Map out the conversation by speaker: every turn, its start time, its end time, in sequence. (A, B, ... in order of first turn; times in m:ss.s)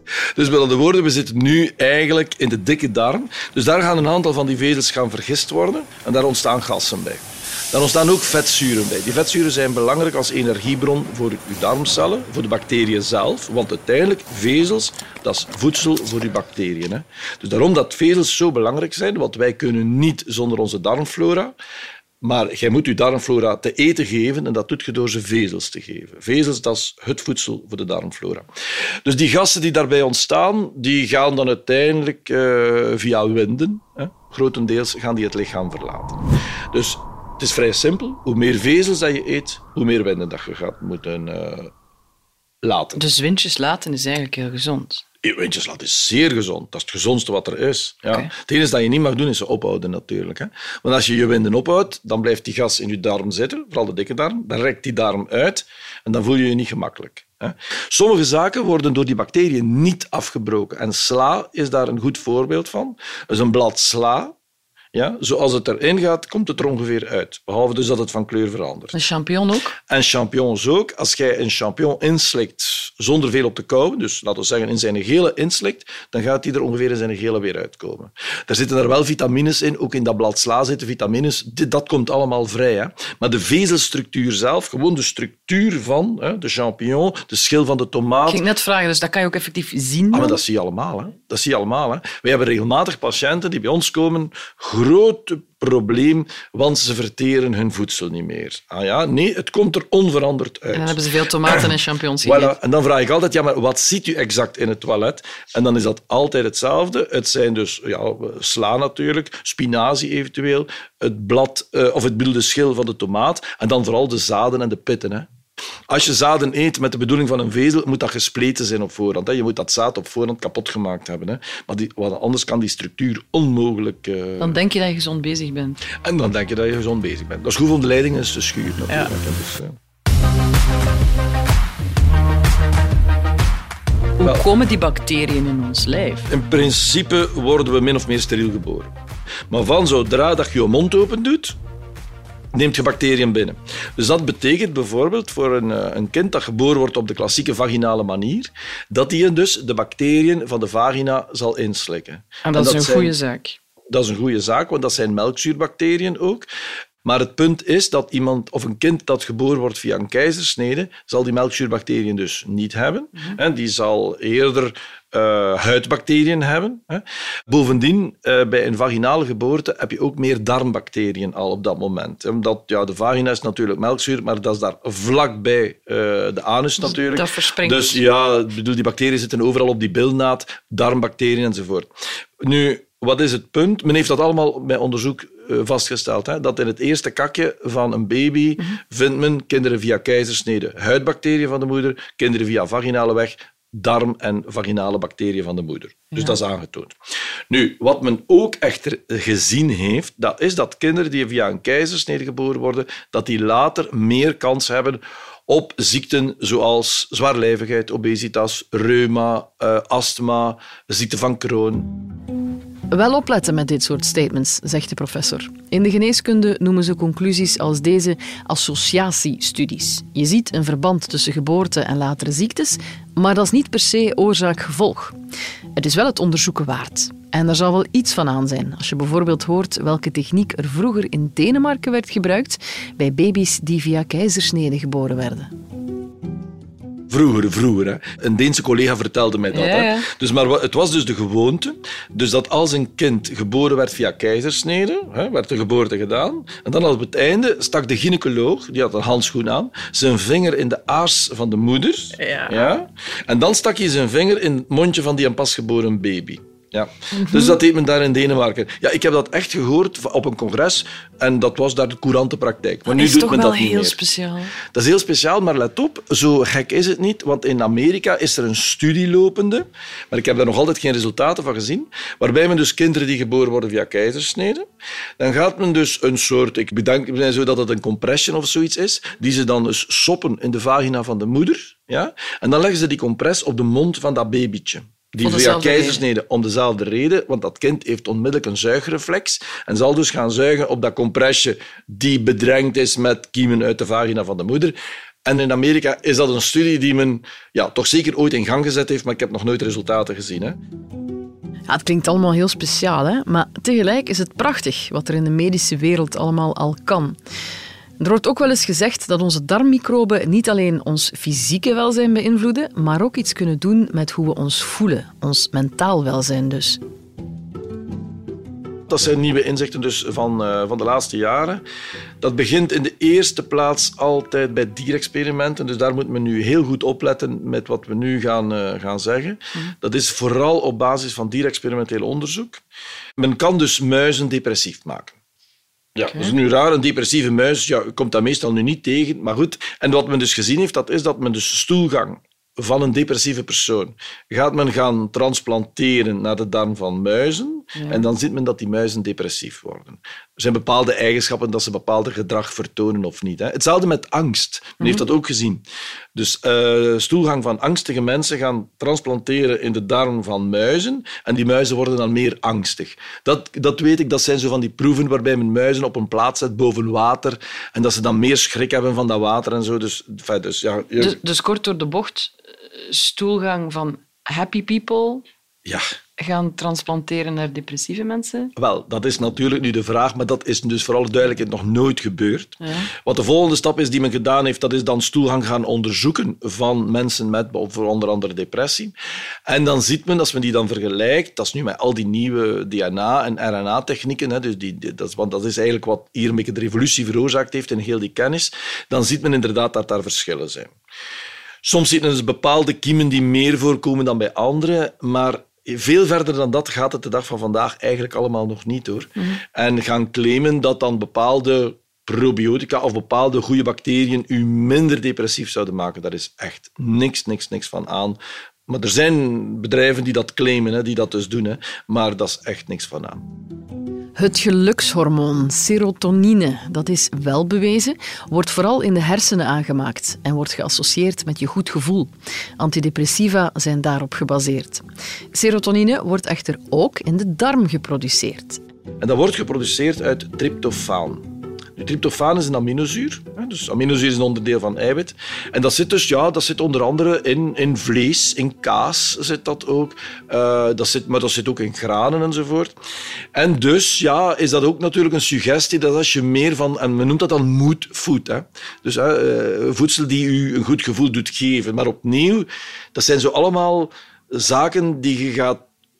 0:00.3-0:21.5 A
0:22.2-0:28.4 A
0:29.0-0:36.2 A
0:36.7-0:41.7 A
0:42.6-0:43.0 A
0:42.9-0:45.0 B
0:45.2-1:04.3 A
1:04.9-1:08.9 A
1:08.9-1:09.8 B
1:09.8-1:28.4 A
1:28.2-1:30.4 B
1:30.1-1:41.7 A
1:40.7-1:42.6 B
1:42.2-1:55.3 A
1:55.9-2:04.6 A
2:04.4-2:05.8 B
2:05.9-2:09.8 A
2:14.2-2:16.3 B
2:16.3-2:18.9 A
2:19.5-2:21.6 A
2:22.5-2:33.1 A
2:32.4-2:33.6 B
2:33.9-2:36.5 A
2:37.0-3:01.9 A
2:56.8-2:58.0 B
3:02.4-3:16.9 A
3:16.1-3:16.4 B
3:17.5-3:32.0 A
3:32.9-3:45.2 B
3:45.8-3:55.5 B
3:57.1-4:24.0 A
3:59.5-4:00.1 B
4:12.2-4:12.7 B
4:17.1-4:17.6 B
4:22.9-4:24.5 B
4:24.6-4:34.6 A
4:35.2-5:00.6 A
4:45.2-4:46.0 B
5:01.7-5:07.2 B
5:08.0-5:16.8 B
5:18.9-5:21.6 A
5:22.2-5:32.6 A
5:33.2-5:35.2 A
5:35.9-5:55.6 A
5:36.1-5:36.3 B
5:47.8-5:48.0 B
5:56.1-6:11.2 A
6:11.0-6:15.2 B
6:16.2-6:18.5 B
6:18.6-6:28.9 A
6:22.6-6:22.9 B
6:29.5-6:40.7 A
6:41.6-7:03.3 A
7:04.2-7:18.6 B
7:19.0-7:32.7 A
7:33.3-7:45.7 A